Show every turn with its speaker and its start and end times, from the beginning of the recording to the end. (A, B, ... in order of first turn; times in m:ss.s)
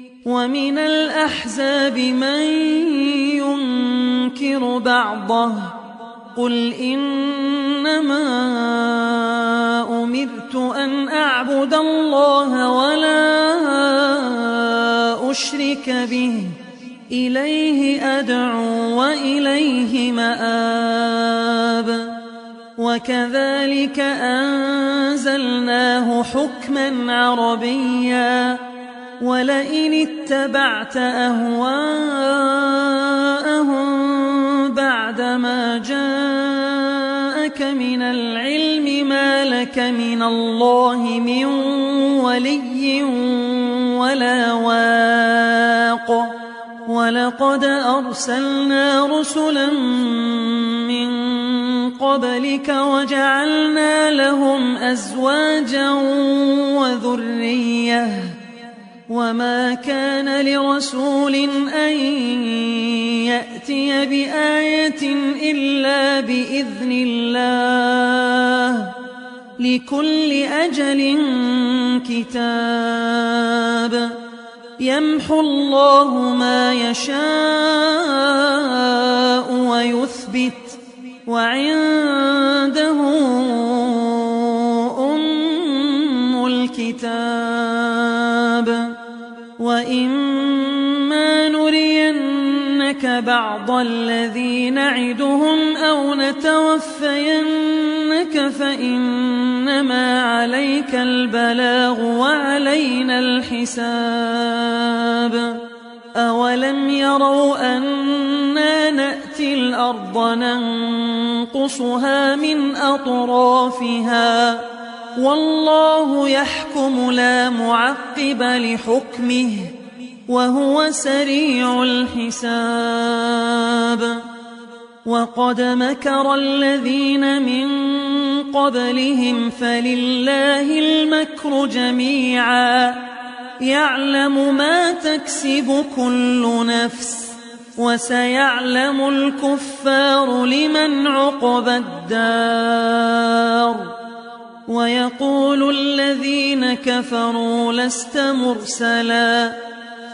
0:00.2-0:22.2 A
0:22.8-0:58.4 A
0:59.1-1:09.0 A
1:09.6-1:14.2 A
1:14.8-1:29.0 A
1:29.6-1:59.7 A
2:00.2-2:04.3 A
2:05.0-2:24.0 A
2:24.6-2:29.6 A